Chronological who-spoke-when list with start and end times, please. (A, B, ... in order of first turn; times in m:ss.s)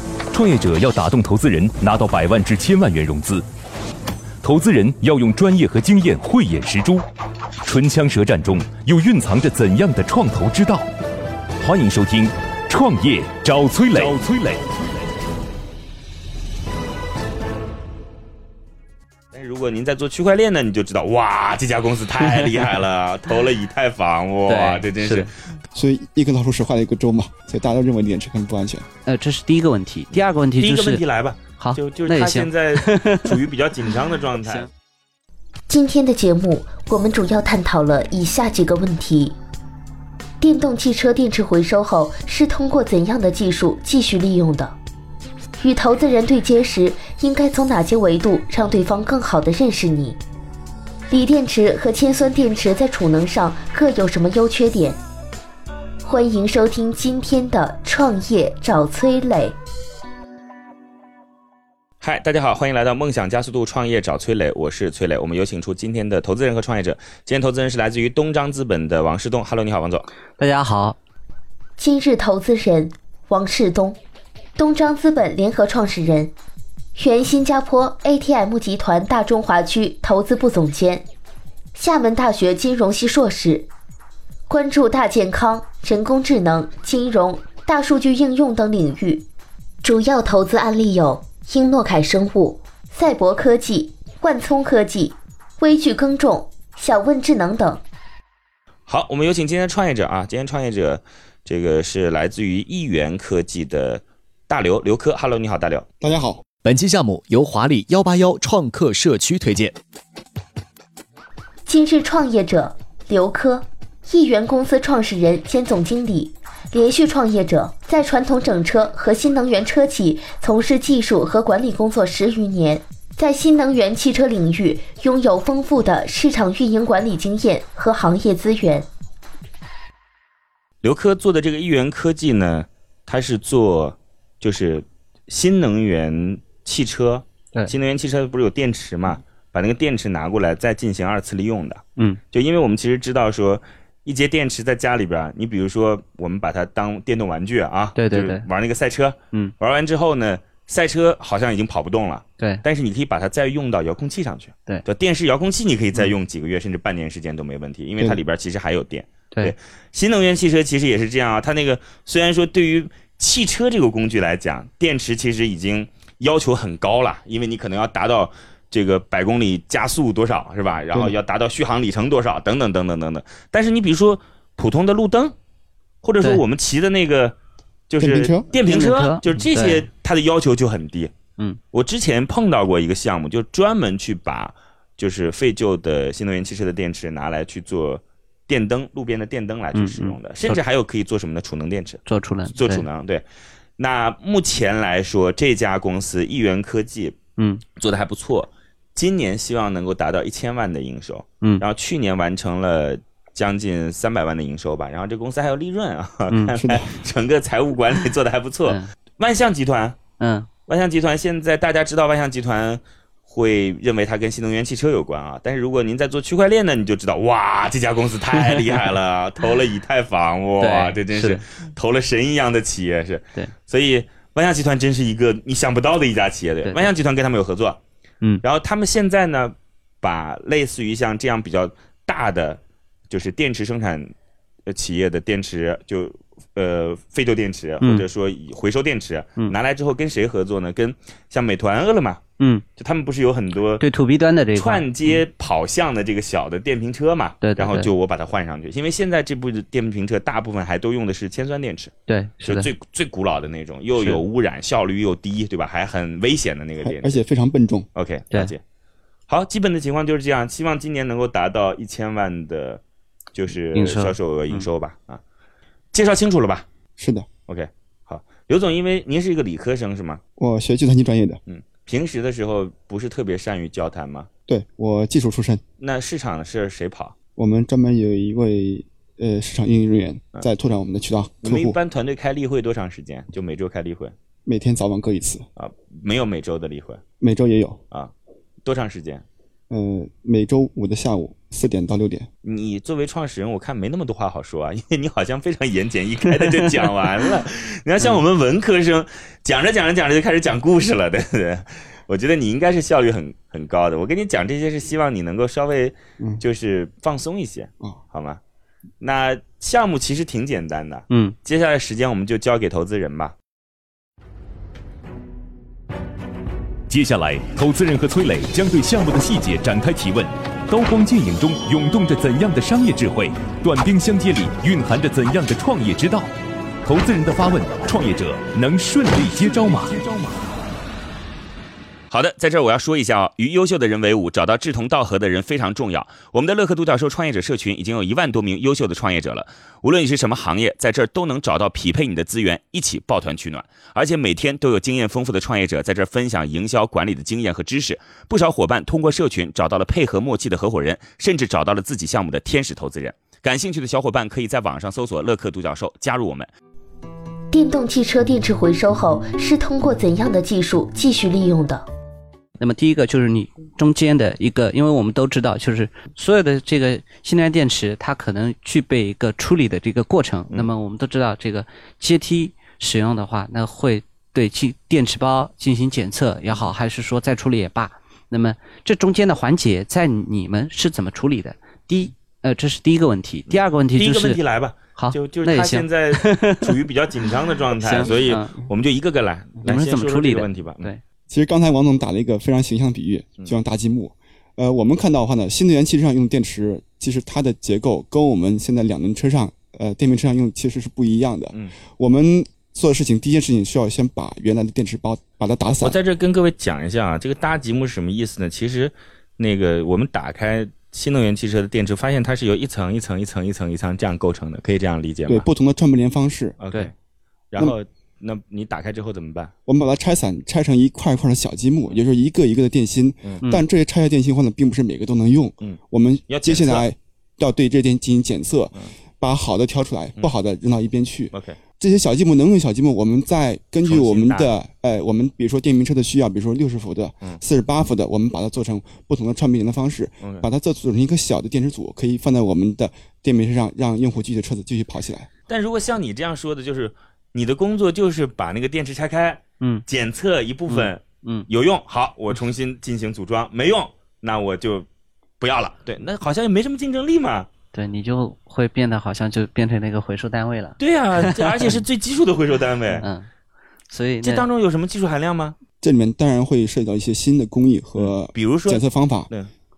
0:00.3-0:03.5 A
0:04.4-0:07.0 A
0:07.6-0:10.9 A
0:11.6-0:14.7 A
0:19.3-0:25.3 B
0:22.3-0:22.8 C
0:24.5-0:25.3 C
0:25.7-0:28.9 D
0:29.1-0:31.0 C
0:30.1-0:34.7 B
0:31.6-0:33.4 C
0:34.4-0:34.7 C
0:35.7-0:39.4 E
0:40.4-0:44.8 E
0:45.6-0:50.2 E
0:51.1-0:55.0 E
0:56.0-0:59.6 E
1:02.0-1:10.1 B
1:10.4-1:11.0 C
1:11.8-1:14.0 E
1:14.6-1:16.3 E
1:17.0-1:21.1 E
1:21.8-1:23.7 E
1:24.5-1:29.3 E
1:29.8-1:37.8 E
1:38.9-1:45.8 B
1:46.0-1:46.4 D
1:46.6-1:49.7 F
1:51.7-2:08.9 E
2:10.8-2:55.4 B
2:28.0-2:28.5 C
2:32.4-2:32.6 C
2:56.0-2:57.4 B
2:57.9-3:01.1 B
2:58.0-2:58.4 D
2:58.5-2:59.9 C
3:01.7-3:13.2 B
3:09.8-3:10.6 C
3:12.1-3:12.9 C
3:13.8-3:17.2 B
3:17.8-3:30.0 B
3:26.3-3:26.6 C
3:26.6-3:26.9 D
3:28.7-3:28.9 C
3:30.2-3:30.5 C
3:30.7-3:47.8 B
3:38.4-3:38.9 C
3:40.6-3:41.4 C
3:46.6-3:46.9 C
3:48.4-3:54.1 B
3:54.7-4:02.2 B
4:02.8-4:03.8 B
4:03.8-4:05.2 C
4:04.6-4:11.9 B
4:07.4-4:07.9 C
4:12.1-4:12.7 C
4:12.4-4:17.2 B
4:16.8-4:17.9 D
4:18.0-4:18.6 B
4:19.3-4:22.8 B
4:23.3-4:25.2 B
4:23.7-4:24.7 C
4:25.9-4:26.7 B
4:27.0-4:27.3 D
4:27.5-4:30.2 B
4:30.4-4:31.4 D
4:31.5-4:34.3 B
4:34.5-4:35.6 D
4:35.8-4:37.2 B
4:37.4-4:41.8 D
4:41.4-4:44.1 B
4:44.5-4:45.4 D
4:45.6-4:47.0 B
4:47.2-4:47.8 D
4:48.6-4:49.2 B
4:49.7-4:52.3 D
4:52.4-5:08.4 B
4:56.4-4:56.9 C
5:09.0-5:13.3 B
5:11.1-5:11.4 C
5:16.9-5:26.3 A
5:26.8-5:30.3 A
5:32.1-5:56.5 B
5:57.5-6:01.8 E
6:02.6-6:24.4 C
6:23.5-6:30.9 B
6:25.0-6:26.7 C
6:27.8-6:28.6 C
6:29.6-6:31.0 C
6:31.3-6:46.0 D
6:45.8-6:55.5 B
6:55.3-6:56.6 D
6:56.6-6:56.9 B
6:57.5-6:59.5 B
6:59.7-7:25.3 D
7:05.6-7:06.9 B
7:11.3-7:11.6 B
7:13.8-7:14.5 B
7:20.2-7:20.5 B
7:25.5-7:34.9 B
7:30.7-7:31.5 C
7:35.4-7:37.5 B
7:37.7-7:41.8 C
7:40.8-7:43.0 B
7:43.0-7:43.3 C
7:43.9-7:44.5 C
7:44.2-7:45.6 B
7:45.8-7:49.3 D
7:48.0-7:49.5 B